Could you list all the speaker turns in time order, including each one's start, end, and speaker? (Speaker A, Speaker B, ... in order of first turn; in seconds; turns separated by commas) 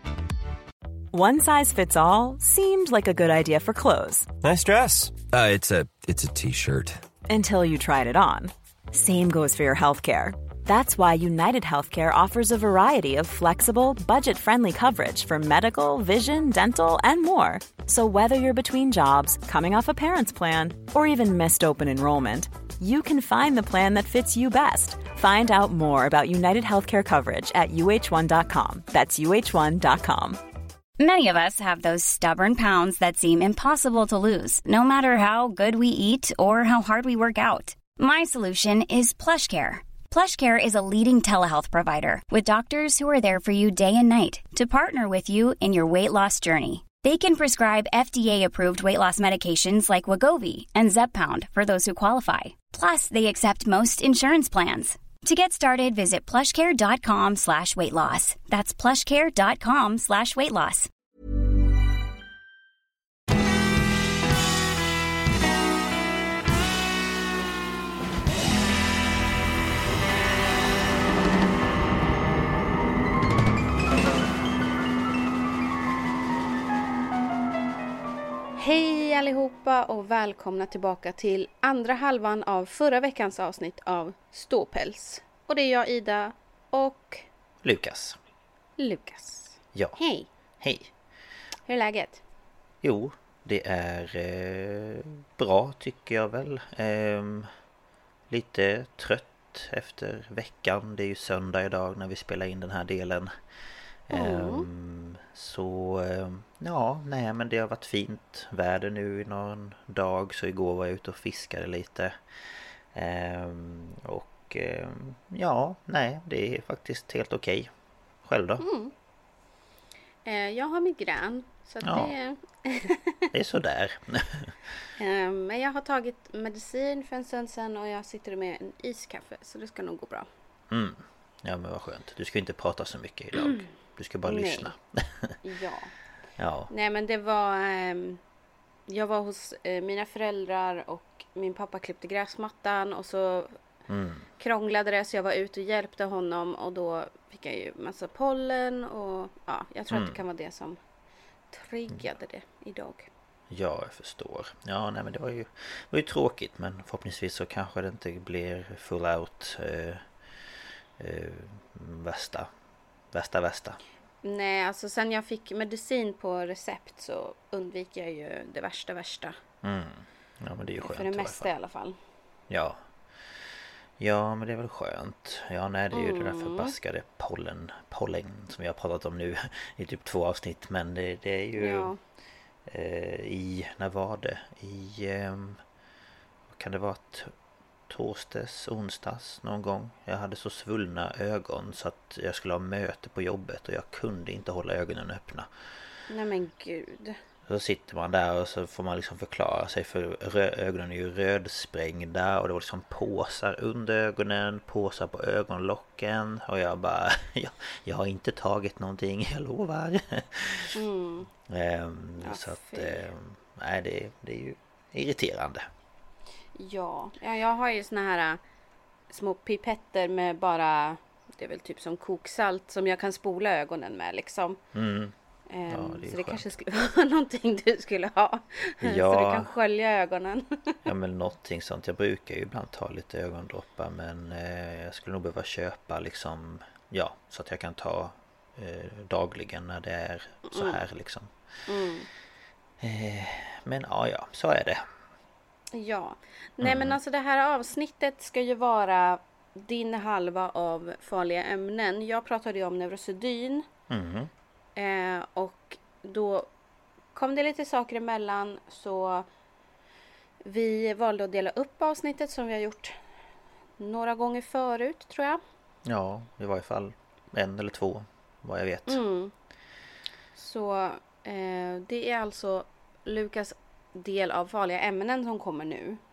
Speaker A: 1.1-4.3, Speaker B: 4.4-7.0, Speaker A: 7.3-30.4, Speaker C: 31.0-60.9, Speaker D: 78.6-87.2, Speaker E: 87.6-88.2, Speaker D: 88.8-90.3, Speaker E: 90.6-90.9, Speaker D: 91.7-92.2, Speaker E: 92.8-97.5, Speaker E: 98.3-103.3, Speaker E: 104.1-112.2, Speaker D: 104.1-104.7, Speaker E: 112.9-117.7, Speaker E: 118.2-118.6, Speaker D: 118.6-118.9, Speaker D: 120.2-123.2, Speaker E: 121.8-122.1, Speaker E: 123.3-124.5, Speaker D: 125.0-130.3, Speaker E: 130.7-135.3, Speaker D: 134.2-134.7, Speaker D: 135.4-135.9, Speaker E: 136.4-136.7, Speaker D: 136.7-138.2, Speaker D: 138.9-143.5, Speaker E: 143.9-144.3, Speaker D: 144.4-150.8, Speaker E: 149.9-150.2, Speaker D: 151.5-153.1, Speaker E: 153.5-160.0, Speaker E: 161.0-162.5, Speaker E: 163.1-163.8, Speaker D: 164.2-169.3, Speaker E: 169.6-171.5, Speaker D: 170.8-171.9, Speaker E: 172.5-172.8, Speaker E: 174.0-181.9, Speaker D: 175.9-176.7, Speaker D: 181.6-182.0, Speaker E: 182.7-185.6, Speaker E: 186.5-187.3, Speaker E: 187.9-195.5, Speaker D: 196.1-197.2, Speaker E: 197.5-210.8, Speaker D: 210.7-211.3, Speaker E: 211.5-215.7, Speaker D: 212.2-213.0, Speaker D: 216.6-218.4, Speaker D: 219.1-224.6, Speaker E: 224.7-225.1, Speaker D: 225.5-230.8, Speaker E: 225.7-226.4, Speaker E: 228.8-229.5, Speaker E: 230.8-241.3, Speaker D: 240.4-240.8, Speaker D: 241.7-242.1, Speaker E: 242.8-244.8, Speaker D: 245.7-253.6, Speaker E: 246.6-247.0, Speaker E: 253.9-254.3, Speaker D: 254.8-256.5, Speaker D: 257.1-259.3, Speaker D: 260.4-262.9, Speaker D: 263.8-265.4, Speaker E: 265.9-269.0, Speaker D: 268.9-269.3, Speaker D: 270.3-276.0